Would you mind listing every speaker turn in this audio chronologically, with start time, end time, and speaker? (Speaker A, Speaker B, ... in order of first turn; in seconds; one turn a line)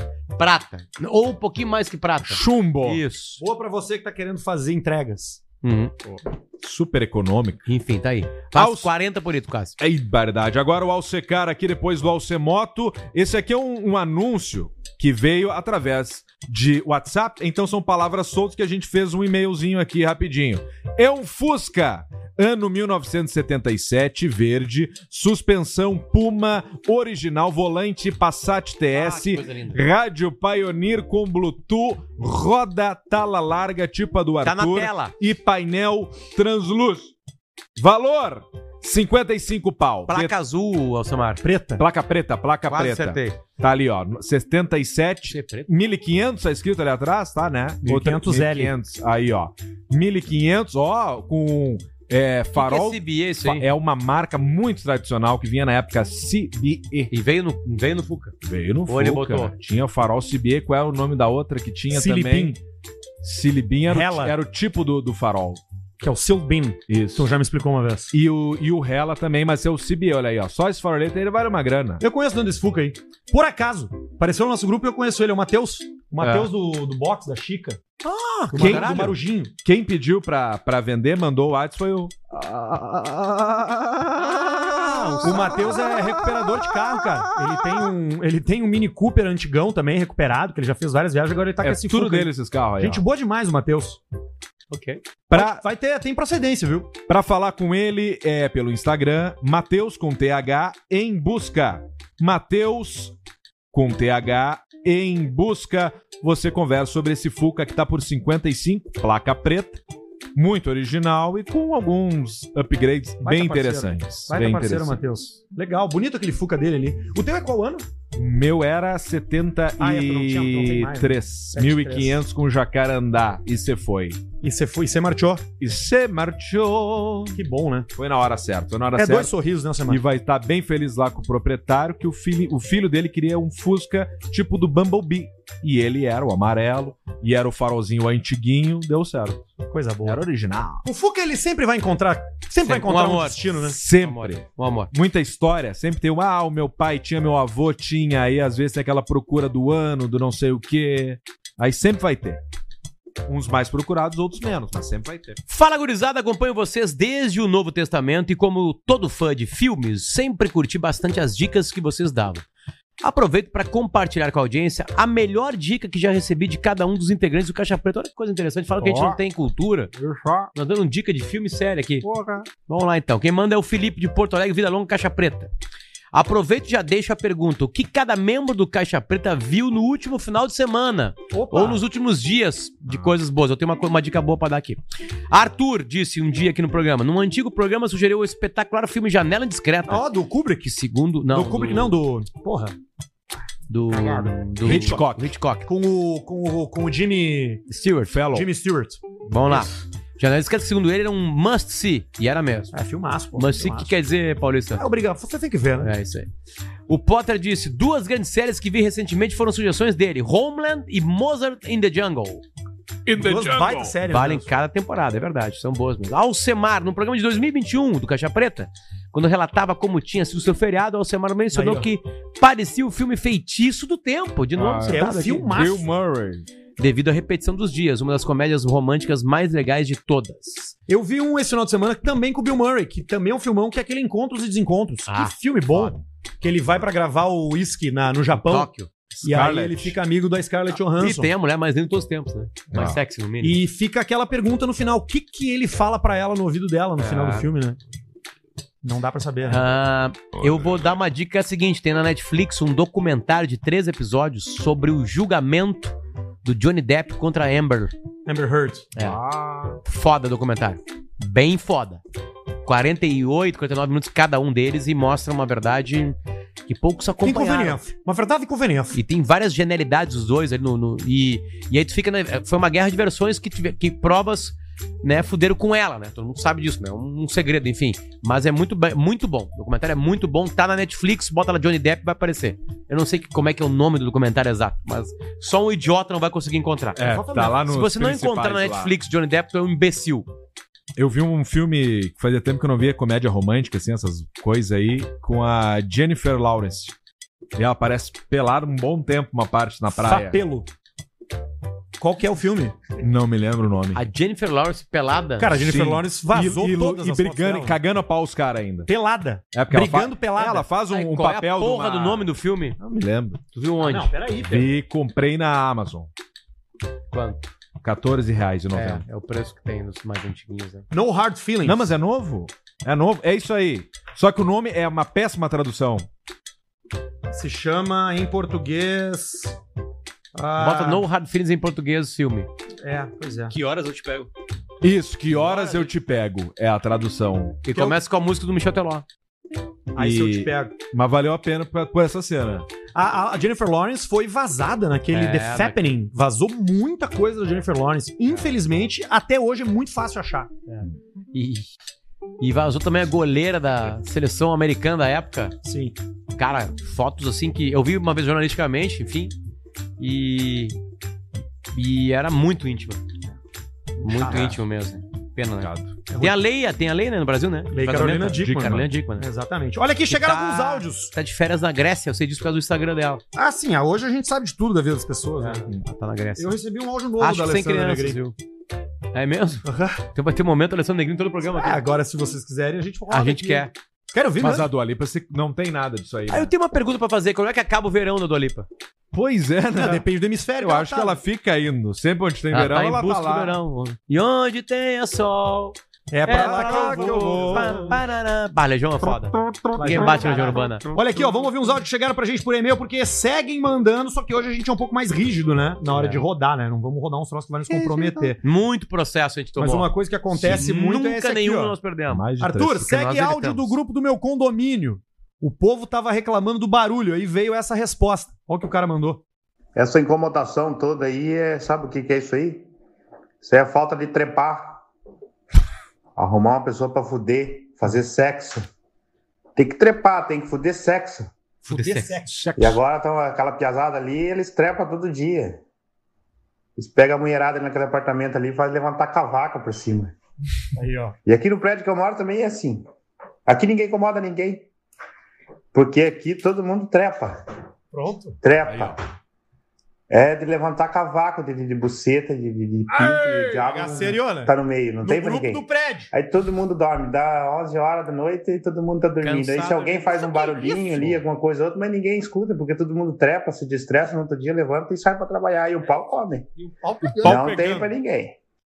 Speaker A: 0.4-3.4
Speaker B: 2.2-3.0
Speaker C: 3.4-5.4
Speaker A: 5.6-5.9
Speaker B: 6.1-7.6
Speaker A: 7.7-9.8
Speaker B: 8.5-8.9
Speaker B: 9.8-37.1
Speaker A: 28.9-29.8
Speaker A: 34.4-35.1
Speaker B: 37.8-40.3
Speaker A: 40.1-41.4
Speaker C: 41.4-41.8
Speaker B: 41.8-57.1
Speaker A: 42.7-43.4
Speaker A: 45.3-45.7
Speaker C: 47.8-48.7
Speaker A: 52.5-53.6
Speaker A: 57.1-58.3
Speaker B: 58.4-62.6
Speaker A: 58.9-59.5
Speaker C: 61.9-62.6
Speaker B: 63.2-65.6
Speaker C: 63.9-64.3
Speaker C: 66.0-68.1
Speaker B: 66.9-67.3
Speaker B: 68.1-72.0
Speaker C: 72.0-77.8
Speaker A: 78.0-79.2
Speaker C: 78.5-79.5
Speaker B: 78.5-86.2
Speaker C: 85.2-94.0
Speaker B: 91.6-93.0
Speaker A: 94.7-95.0
Speaker B: 95.3-95.6
Speaker C: 95.3-96.9
Speaker B: 97.0-103.1
Speaker B: 103.7-109.8
Speaker B: 110.3-115.0
Speaker C: 113.2-117.8
Speaker B: 118.1-124.2
Speaker C: 119.8-122.2
Speaker C: 124.4-125.4
Speaker B: 125.6-127.4
Speaker C: 127.3-127.9
Speaker B: 127.9-129.3
Speaker C: 128.9-130.0
Speaker B: 129.8-139.5
Speaker C: 139.7-140.2
Speaker B: 140.0-140.8
Speaker C: 140.8-143.8
Speaker A: 142.6-144.9
Speaker B: 143.6-152.4
Speaker B: 153.2-155.4
Speaker A: 155.5-162.4
Speaker A: 163.0-169.9
Speaker B: 168.8-169.2
Speaker B: 170.0-170.5
Speaker A: 170.5-172.1
Speaker B: 172.0-172.4
Speaker A: 172.7-175.5
Speaker A: 176.1-190.0
Speaker C: 181.3-181.8
Speaker B: 182.9-183.1
Speaker C: 189.9-190.7
Speaker A: 190.6-191.9
Speaker C: 191.3-192.7
Speaker A: 193.7-195.7
Speaker C: 193.9-195.0
Speaker B: 194.6-195.3
Speaker C: 195.7-197.6
Speaker A: 197.7-198.2
Speaker B: 198.1-198.5
Speaker C: 198.3-199.7
Speaker A: 199.2-202.7
Speaker C: 202.7-203.9
Speaker A: 203.3-204.8
Speaker C: 204.7-205.9
Speaker A: 205.8-206.3
Speaker A: 206.9-212.4
Speaker B: 213.1-213.9
Speaker C: 213.2-214.5
Speaker A: 214.1-225.5
Speaker C: 221.5-221.9
Speaker B: 224.6-226.5
Speaker C: 224.8-225.9
Speaker A: 226.8-230.7
Speaker C: 230.9-238.7
Speaker A: 235.1-235.9
Speaker A: 238.3-238.9
Speaker B: 239.1-240.0
Speaker C: 239.2-241.3
Speaker A: 240.9-243.6
Speaker B: 242.7-243.0
Speaker C: 243.4-247.8
Speaker A: 247.0-247.5
Speaker C: 248.8-249.6
Speaker A: 249.5-257.9
Speaker C: 258.2-258.9
Speaker B: 259.0-259.8
Speaker A: 259.8-262.0
Speaker A: 262.6-267.8
Speaker C: 267.2-269.0
Speaker A: 268.9-290.3
Speaker B: 286.9-288.9
Speaker C: 287.0-287.6
Speaker B: 290.9-296.9
Speaker B: 297.6-300.4
Speaker C: 299.9-300.7
Speaker C: 302.0-302.8
Speaker B: 303.0-304.0
Speaker A: 303.9-305.6
Speaker C: 305.4-307.8
Speaker B: 305.5-308.9
Speaker C: 308.9-310.7
Speaker B: 309.5-313.4
Speaker A: 310.9-312.8
Speaker A: 313.5-314.1
Speaker C: 313.8-314.7
Speaker B: 314.4-316.1
Speaker A: 317.1-317.5
Speaker B: 317.8-319.0
Speaker A: 318.7-320.9
Speaker C: 320.9-321.9
Speaker B: 321.6-326.1
Speaker C: 327.3-329.6
Speaker C: 330.3-331.0
Speaker A: 330.6-332.5
Speaker C: 332.8-333.5
Speaker A: 333.5-334.3
Speaker B: 334.8-337.6
Speaker A: 335.3-335.9
Speaker A: 337.6-339.0
Speaker C: 339.9-340.7
Speaker B: 339.9-342.7
Speaker C: 342.9-350.5
Speaker A: 345.1-345.9
Speaker A: 350.7-351.7
Speaker A: 352.4-355.5
Speaker C: 355.6-355.9
Speaker A: 356.3-359.3
Speaker A: 360.0-360.8
Speaker A: 361.7-363.0
Speaker C: 364.0-364.6
Speaker A: 364.0-369.2
Speaker B: 365.6-365.9
Speaker C: 366.1-366.4
Speaker C: 367.7-371.1
Speaker A: 370.1-373.2
Speaker C: 373.3-375.6
Speaker A: 375.4-376.5
Speaker C: 376.4-378.2
Speaker A: 377.2-378.4
Speaker A: 379.1-381.9
Speaker C: 379.6-380.0
Speaker C: 381.5-384.7
Speaker A: 383.1-383.7
Speaker B: 384.4-386.5
Speaker A: 386.3-388.7
Speaker B: 389.1-390.0
Speaker C: 389.7-391.2
Speaker B: 390.6-393.6
Speaker A: 392.5-400.9
Speaker C: 396.1-398.0
Speaker B: 396.3-398.0
Speaker C: 399.8-408.4
Speaker A: 405.9-406.2
Speaker B: 408.0-408.3
Speaker A: 408.4-412.3
Speaker C: 409.6-411.7
Speaker B: 412.1-412.9
Speaker C: 412.4-419.2
Speaker A: 412.8-413.7
Speaker D: 419.7-422.7
Speaker D: 423.4-424.8
Speaker D: 426.1-428.7
Speaker D: 429.6-431.3
Speaker A: 431.6-432.1
Speaker C: 431.7-432.4
Speaker B: 432.3-432.8
Speaker D: 432.6-435.6
Speaker D: 436.8-440.1
Speaker C: 440.8-441.2
Speaker D: 441.2-442.8
Speaker D: 443.4-444.7
Speaker D: 445.7-447.4
Speaker C: 447.9-448.4
Speaker D: 448.4-449.0
Speaker B: 448.6-449.0
Speaker D: 450.1-466.5
Speaker B: 452.9-453.6
Speaker C: 453.0-456.1
Speaker A: 459.2-461.2
Speaker C: 466.6-467.9
Speaker D: 467.2-468.4